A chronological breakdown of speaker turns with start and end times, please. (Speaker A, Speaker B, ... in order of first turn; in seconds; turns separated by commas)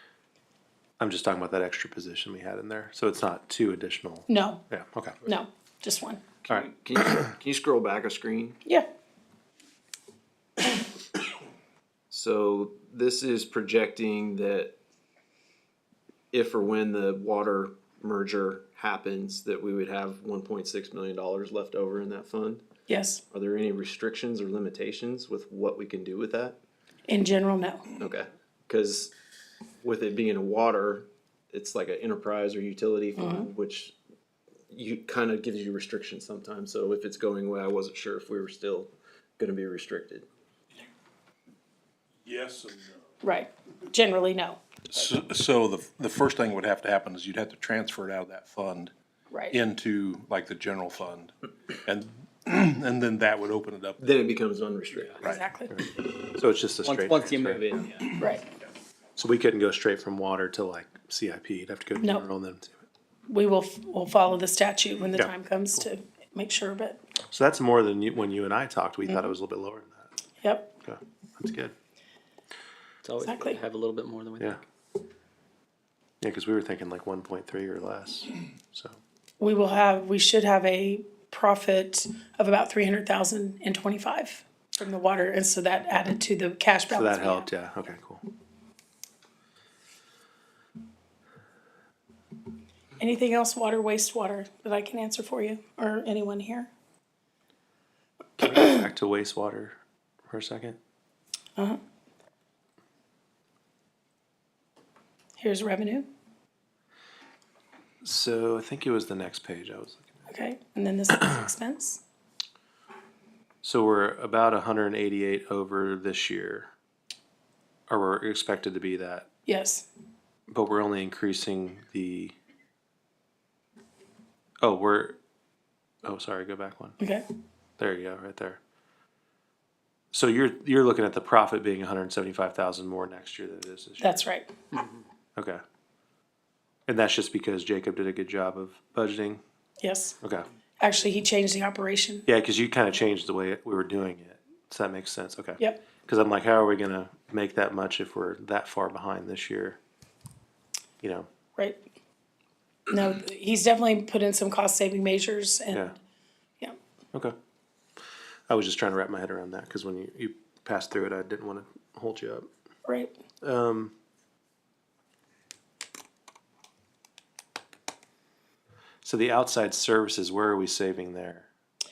Speaker A: 1.0-5.2, Speaker B: 4.3-4.6, Speaker B: 5.2-6.2, Speaker C: 6.5-8.6, Speaker C: 12.1-14.7, Speaker C: 16.3-22.6, Speaker B: 22.9-23.2, Speaker C: 23.3-26.6, Speaker B: 27.1-27.9, Speaker C: 28.0-29.1, Speaker C: 29.8-33.9, Speaker B: 33.2-33.5, Speaker C: 34.7-40.3, Speaker D: 42.3-43.0, Speaker B: 43.2-44.6, Speaker D: 44.9-48.9, Speaker B: 49.3-49.6, Speaker D: 49.5-51.3, Speaker D: 51.9-54.0, Speaker C: 54.0-55.2, Speaker B: 55.2-55.8, Speaker A: 56.3-57.7, Speaker E: 56.8-57.7, Speaker C: 57.7-58.1, Speaker B: 58.2-58.4, Speaker A: 59.2-62.7, Speaker B: 62.0-62.2, Speaker B: 63.3-67.0, Speaker A: 67.3-70.0, Speaker B: 70.4-70.7, Speaker A: 70.8-71.7, Speaker E: 73.0-74.6, Speaker B: 73.2-73.6, Speaker A: 76.2-79.0, Speaker B: 79.4-87.5, Speaker A: 86.9-88.2, Speaker B: 93.0-96.7, Speaker A: 98.4-99.8, Speaker A: 100.3-100.8, Speaker B: 105.4-106.1, Speaker A: 108.0-110.0, Speaker B: 110.3-112.0, Speaker A: 113.6-116.7, Speaker A: 117.9-119.3, Speaker B: 119.5-119.9, Speaker A: 120.5-122.3, Speaker A: 124.6-125.2, Speaker A: 126.0-127.0, Speaker A: 127.8-128.6, Speaker A: 130.1-134.2, Speaker B: 134.0-134.5, Speaker A: 136.9-139.4, Speaker B: 139.8-140.2, Speaker B: 140.8-142.2, Speaker A: 142.3-149.8, Speaker A: 151.0-151.3, Speaker B: 152.9-155.9, Speaker A: 158.5-162.5, Speaker A: 163.4-163.9, Speaker A: 169.0-171.5